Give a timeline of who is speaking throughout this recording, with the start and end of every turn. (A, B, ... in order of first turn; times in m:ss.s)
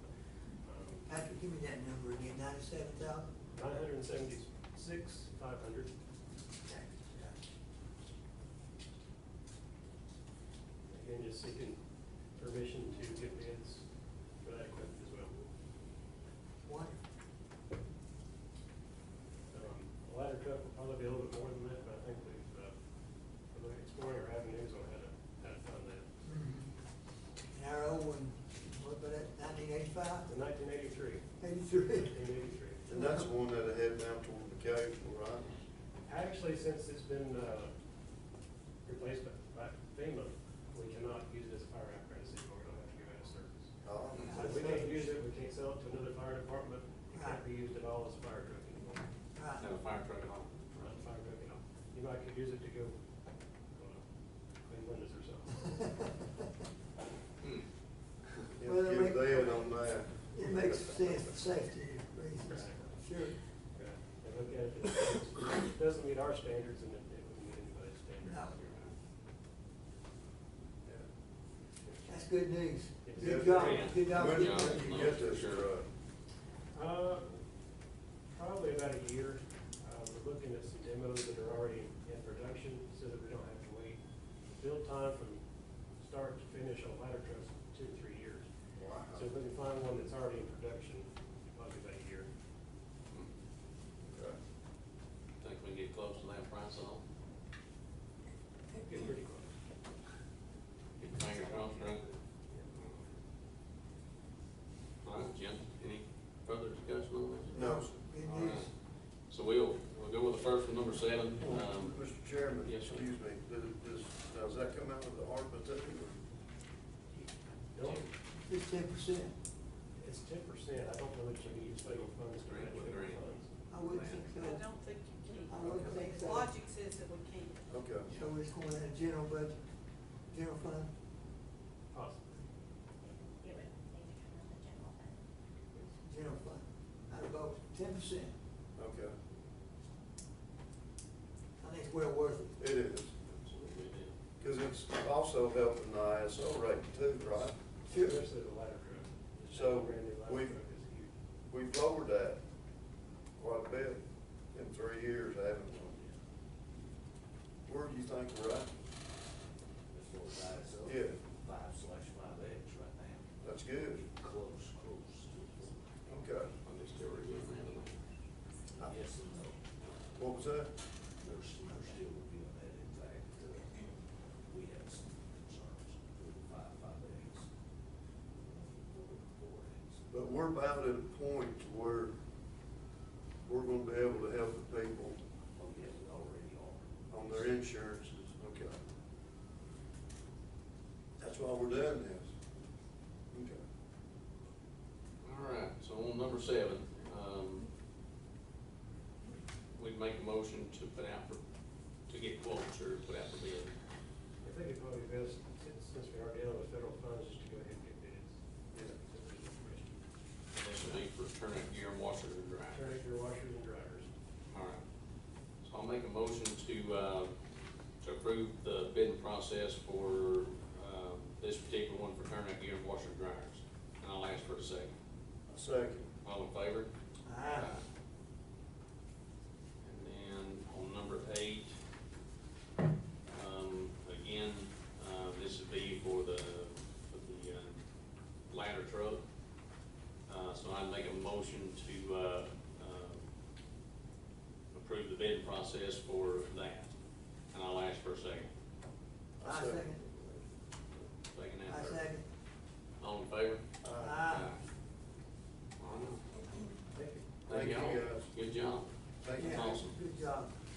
0:00.5-0:01.1 A
0:01.0-0:03.3 B
0:03.5-0:05.9 A
0:06.7-0:07.3 B
0:10.9-0:11.8 A
0:12.3-0:15.3 A
0:16.6-0:17.0 B
0:19.5-0:22.8 A
0:23.4-0:26.1 A
0:26.2-0:26.7 B
0:27.5-0:30.3 B
0:30.2-0:31.3 A
0:31.4-0:32.1 B
0:31.9-0:32.8 A
0:32.9-0:33.3 B
0:32.9-0:35.6 C
0:36.0-0:37.7 A
0:38.8-0:49.1 A
0:43.8-0:44.3 C
0:44.1-0:45.0 B
0:44.1-0:44.4 D
0:47.1-0:47.4 B
0:49.3-0:49.7 B
0:49.6-0:50.9 D
0:50.8-0:53.0 A
0:53.7-0:54.0 A
0:54.6-0:55.8 A
0:58.6-1:01.2 C
0:58.6-1:03.5 B
1:02.4-1:03.0 A
1:03.5-1:08.6 A
1:08.2-1:08.6 B
1:08.6-1:08.9 D
1:12.0-1:15.2 B
1:13.0-1:13.9 A
1:13.2-1:15.9 C
1:13.3-1:15.7 D
1:16.7-1:17.4 A
1:18.2-1:25.4 A
1:26.0-1:28.5 A
1:28.7-1:29.3 C
1:29.1-1:32.3 A
1:34.0-1:34.4 C
1:35.4-1:37.0 D
1:38.7-1:39.5 A
1:41.0-1:42.0 D
1:41.2-1:42.6 E
1:45.0-1:48.7 D
1:47.5-1:48.7 B
1:47.5-1:48.0 C
1:49.3-1:53.1 D
1:51.4-1:56.2 C
1:57.1-1:58.1 A
1:57.8-1:58.1 D
1:58.4-1:59.4 B
1:59.9-2:03.5 A
2:01.6-2:03.2 D
2:03.7-2:04.7 B
2:03.9-2:07.6 F
2:05.5-2:06.5 B
2:07.7-2:08.1 C
2:08.0-2:08.3 D
2:08.1-2:09.6 B
2:10.3-2:10.9 B
2:11.9-2:12.4 A
2:13.0-2:15.2 G
2:16.0-2:18.3 B
2:18.7-2:19.2 C
2:21.6-2:22.6 B
2:22.6-2:23.1 C
2:23.2-2:24.1 D
2:24.4-2:27.6 C
2:27.2-2:31.1 A
2:27.9-2:28.2 B
2:29.5-2:30.6 C
2:31.5-2:32.4 C
2:33.4-2:34.0 C
2:34.5-2:36.0 C
2:37.6-2:38.7 C
2:39.9-2:46.1 E
2:40.8-2:41.2 C
2:43.4-2:44.0 C
2:46.1-2:46.5 C
2:46.6-2:48.0 D
2:48.8-2:50.2 E
2:50.1-2:50.7 C
2:51.1-2:57.5 E
2:58.3-3:00.1 E
3:00.1-3:02.1 C
3:03.4-3:05.2 C
3:05.6-3:07.6 E
3:07.1-3:08.8 C
3:11.2-3:12.3 C
3:13.3-3:13.6 C
3:15.2-3:17.7 D
3:19.7-3:21.4 D
3:22.0-3:23.8 D
3:24.4-3:30.0 A
3:30.5-3:32.9 D
3:32.7-3:34.1 A
3:34.5-3:34.8 D
3:35.6-3:37.3 D
3:38.0-3:44.9 D
3:45.5-3:46.1 C
3:46.2-3:46.9 D
3:47.2-3:47.8 B
3:47.5-3:47.8 D
3:49.8-3:51.7 D
3:53.3-3:57.8 D
3:58.5-3:59.2 D
4:00.3-4:03.2 D
4:04.7-4:06.9 D
4:07.5-4:08.5 D
4:09.4-4:10.5 C
4:09.4-4:10.0 B
4:11.3-4:12.1 D
4:11.6-4:12.2 B
4:13.0-4:14.6 D
4:13.8-4:14.3 C
4:13.9-4:14.5 B
4:15.8-4:16.2 D
4:16.9-4:17.2 A
4:17.4-4:20.0 D
4:17.5-4:18.3 C
4:19.2-4:19.7 C
4:19.3-4:20.5 B